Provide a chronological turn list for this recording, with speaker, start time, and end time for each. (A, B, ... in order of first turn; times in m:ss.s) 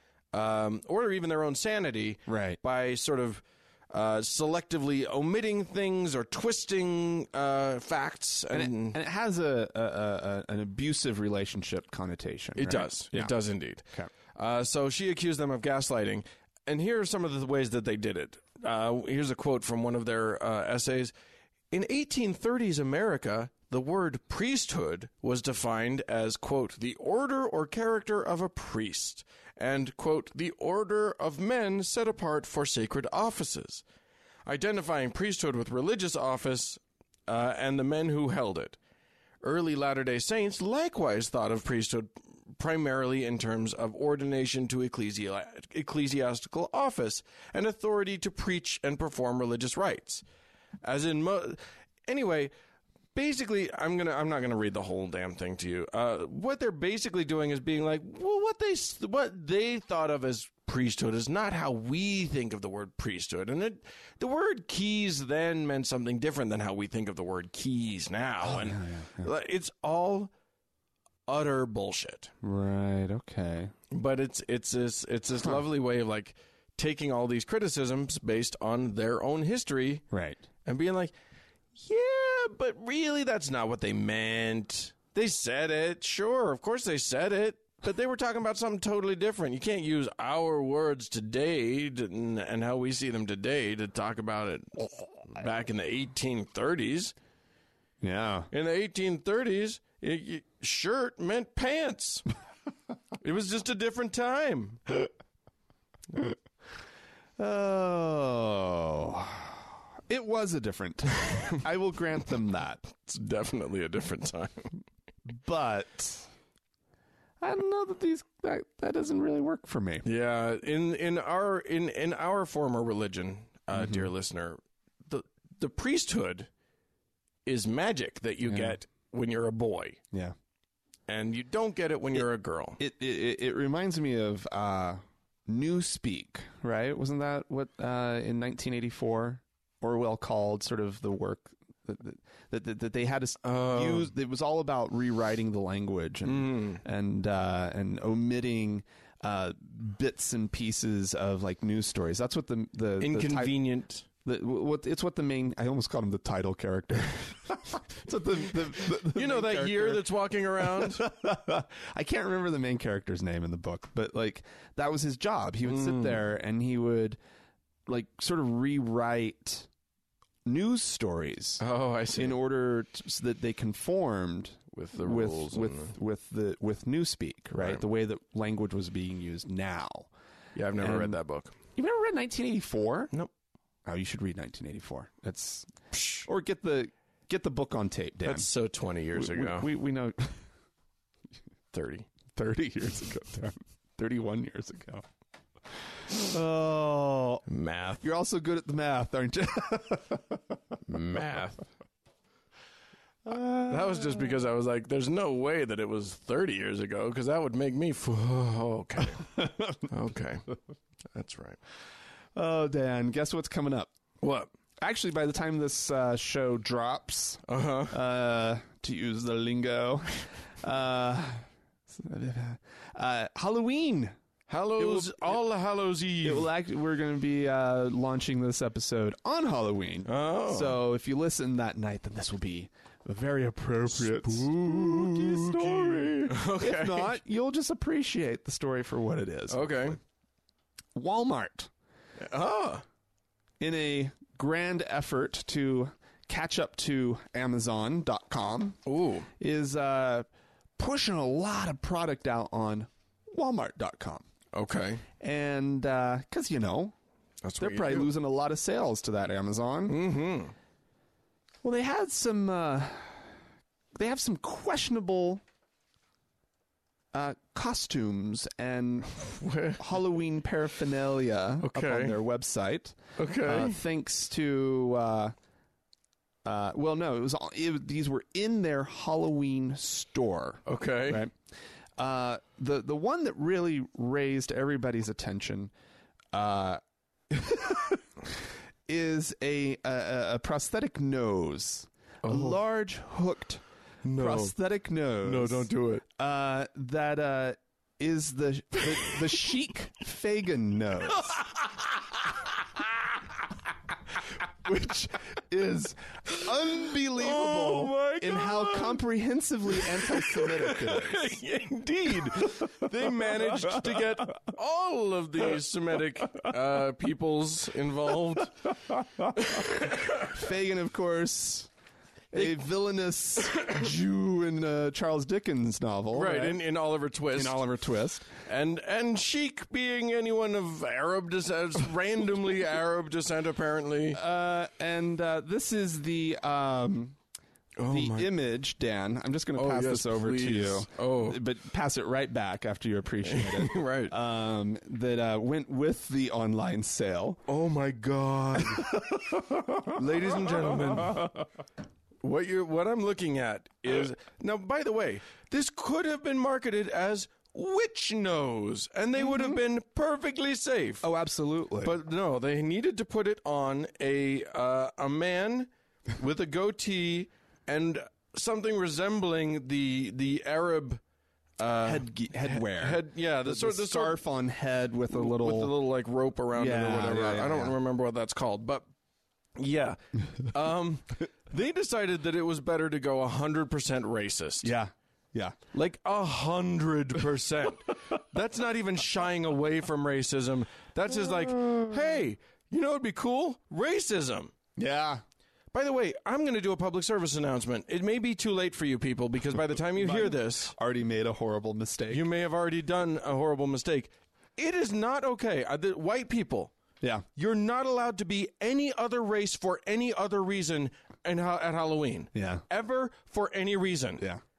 0:00.3-0:09.0 A
0:02.3-0:02.6 B
0:08.5-0:14.1 B
0:12.6-0:21.1 A
0:21.7-0:33.8 A
0:34.4-0:38.8 A
0:39.4-0:50.2 A
0:50.8-0:52.5 A
0:53.1-1:10.3 A
1:08.4-1:09.3 B
1:11.3-1:12.3 A
1:12.4-1:13.7 B
1:13.9-1:20.0 A
1:20.1-1:20.4 B
1:20.6-1:21.1 A
1:21.8-1:37.1 A
1:38.0-1:38.5 B
1:38.5-1:42.2 A
1:43.2-1:45.1 A
1:47.4-1:52.8 B
1:52.9-1:54.7 A
1:55.3-1:56.3 B
1:57.4-2:00.1 B
2:00.0-2:06.5 A
2:03.7-2:04.1 B
2:07.4-2:10.0 A
2:08.4-2:08.8 B
2:11.1-2:12.8 A
2:12.8-2:33.6 B
2:23.4-2:24.1 A
2:26.2-2:26.8 A
2:33.0-2:34.1 A
2:34.2-2:47.2 B
2:38.8-2:41.0 A
2:45.6-2:46.2 A
2:47.9-2:49.7 B
2:50.4-2:51.6 B
2:51.6-2:52.4 A
2:52.1-3:00.1 B
2:54.7-2:55.9 A
2:57.6-2:57.8 A
3:00.5-3:01.5 A
3:00.8-3:01.2 B
3:01.7-3:03.1 B
3:03.8-3:05.7 B
3:05.9-3:06.2 A
3:06.2-3:08.5 B
3:08.2-3:09.7 A
3:09.1-3:10.4 B
3:11.7-3:12.1 A
3:12.3-3:15.0 B
3:16.1-3:17.4 B
3:17.5-3:18.0 A
3:18.0-3:20.4 B
3:20.9-3:21.6 A
3:23.2-3:24.4 B
3:23.6-3:30.5 A
3:29.4-3:29.8 B
3:31.1-3:31.6 A
3:32.3-3:33.9 B
3:34.2-3:34.5 A
3:34.8-3:44.1 B
3:37.5-3:38.0 A
3:44.5-3:46.5 A
3:44.8-3:45.4 B
3:46.2-4:00.0 B
3:50.0-3:50.8 A
3:53.9-3:57.2 A
3:59.5-4:00.0 A
4:00.9-4:01.7 B
4:02.2-4:02.8 A
4:03.6-4:08.8 B
4:08.8-4:09.3 A
4:09.4-4:10.3 B
4:10.8-4:14.2 B
4:14.5-4:15.0 A
4:15.2-4:16.9 B
4:17.4-4:18.1 A
4:17.6-4:20.0 B
4:19.9-4:20.5 A
4:21.6-4:23.3 B
4:23.9-4:25.4 B
4:27.1-4:35.3 B
4:29.2-4:30.0 A
4:31.6-4:32.2 A
4:33.2-4:33.8 A
4:36.4-4:41.3 B
4:40.6-4:41.2 A
4:42.0-4:45.7 B
4:46.3-4:53.6 B
4:52.2-4:52.6 A
4:54.0-4:54.5 A
4:54.2-5:01.4 B
4:55.2-4:56.0 A
5:04.6-5:11.3 B
5:07.1-5:09.0 A
5:09.7-5:18.5 A
5:12.2-5:12.9 B
5:13.6-5:14.0 B
5:18.9-5:21.7 B
5:19.4-5:20.3 A
5:22.3-5:26.6 B
5:26.1-5:27.6 A
5:27.3-5:28.3 B
5:28.4-5:34.2 A
5:34.1-5:37.2 B
5:37.8-5:38.3 A
5:37.9-5:47.4 B
5:39.5-5:41.4 A
5:43.2-5:44.1 A
5:47.5-5:49.0 A
5:48.8-5:49.2 B
5:49.8-5:51.4 A
5:52.2-6:01.0 A
5:59.2-5:59.6 B
6:01.0-6:01.9 B
6:01.8-6:11.0 A
6:11.6-6:14.2 A
6:11.8-6:15.7 B
6:15.1-6:18.9 A
6:16.5-6:17.8 B
6:19.6-6:24.7 A
6:24.6-6:25.6 B
6:25.7-6:34.5 A
6:31.5-6:31.8 B
6:34.8-6:35.2 B
6:35.7-6:40.7 A
6:40.0-6:42.2 B
6:42.1-6:46.7 A
6:47.4-6:54.2 A
6:52.3-6:52.6 B